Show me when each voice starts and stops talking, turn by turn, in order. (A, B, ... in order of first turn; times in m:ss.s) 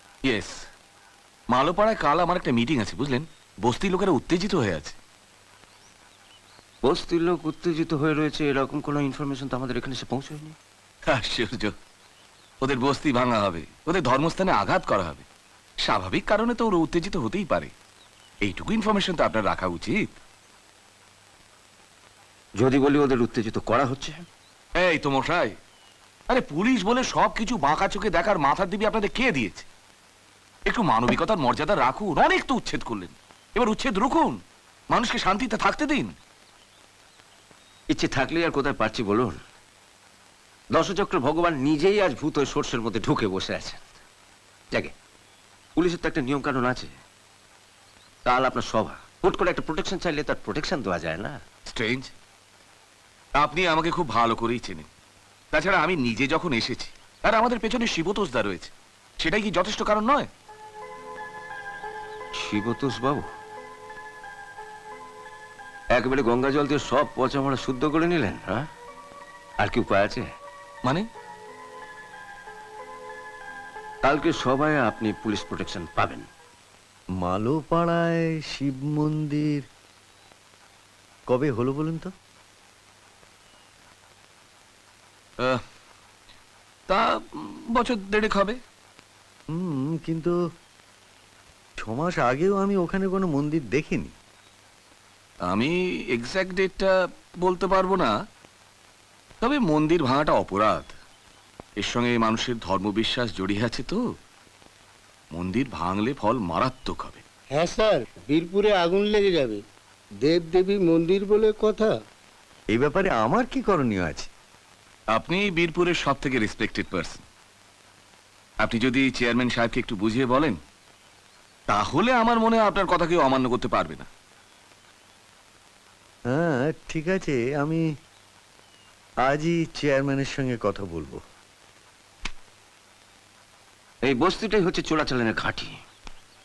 0:00.2-0:00.6 A
0:01.5-0:04.9 A
0:06.8-0:10.6 B
0:11.1-0:11.7 A
0:12.6-0:15.2 A
0:15.8-0:17.7 A
0:18.4-0:20.1 A
0:22.6-0:24.2 B
0:24.8-0:25.5 A
0:26.3-0:29.6 A
0:30.7-0:34.4 A
0:34.9-0:36.1 A
0:37.9-0:39.4 B
0:40.7-0:43.8 B
0:45.8-0:46.9 B
0:48.2-0:51.4 B
0:51.7-0:52.1 A
0:53.4-0:54.9 A
0:55.5-1:00.3 A
1:02.4-1:03.3 B
1:05.9-1:08.7 B
1:09.6-1:10.3 B
1:14.0-1:16.2 B
1:17.2-1:19.6 C
1:21.3-1:22.1 C
1:26.9-1:28.6 A
1:29.5-1:30.3 C
1:31.8-1:34.1 C
1:35.5-1:38.1 A
1:39.4-1:40.9 A
1:41.8-1:44.0 A
1:45.3-1:47.2 A
1:47.5-1:49.6 D
1:50.2-1:52.0 D
1:52.7-1:54.3 C
1:55.1-1:57.2 A
1:58.6-2:00.6 A
2:01.7-2:04.1 A
2:06.3-2:07.9 C
2:09.2-2:11.2 C
2:14.0-2:15.8 B